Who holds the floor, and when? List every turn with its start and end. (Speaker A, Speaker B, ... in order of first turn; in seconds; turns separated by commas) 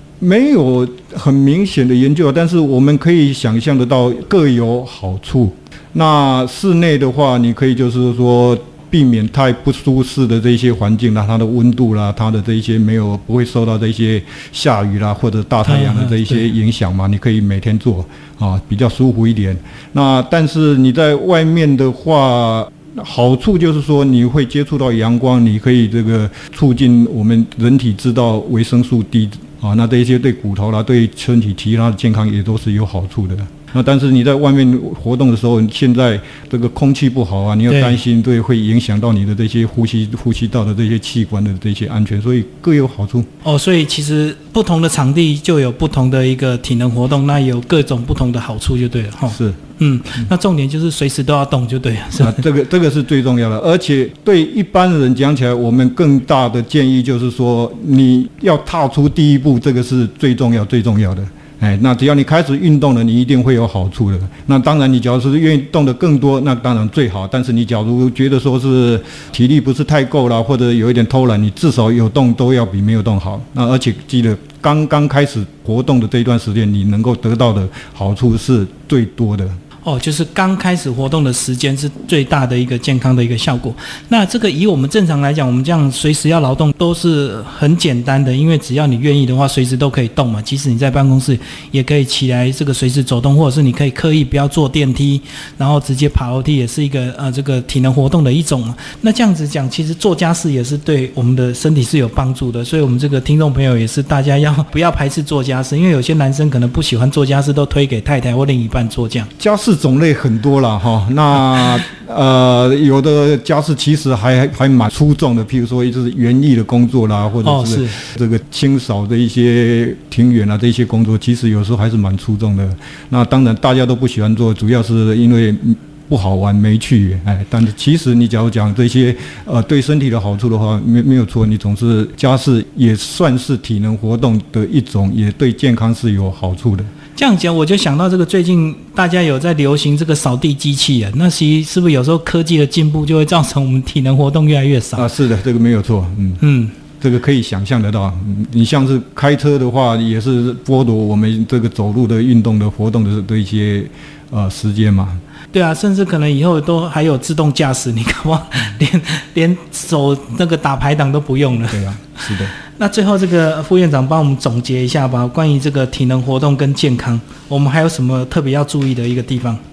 Speaker A: 0.2-43.3, Speaker B: 15.7-16.4, Speaker B: 37.7-38.0, Speaker B: 43.4-52.4, Speaker A: 49.3-49.6, Speaker A: 52.2-79.6, Speaker B: 79.8-109.3, Speaker A: 109.4-136.9, Speaker B: 117.4-118.0, Speaker B: 137.2-145.1, Speaker A: 144.9-146.4, Speaker B: 146.4-146.7, Speaker A: 147.0-155.2, Speaker B: 155.5-169.6, Speaker A: 161.7-162.5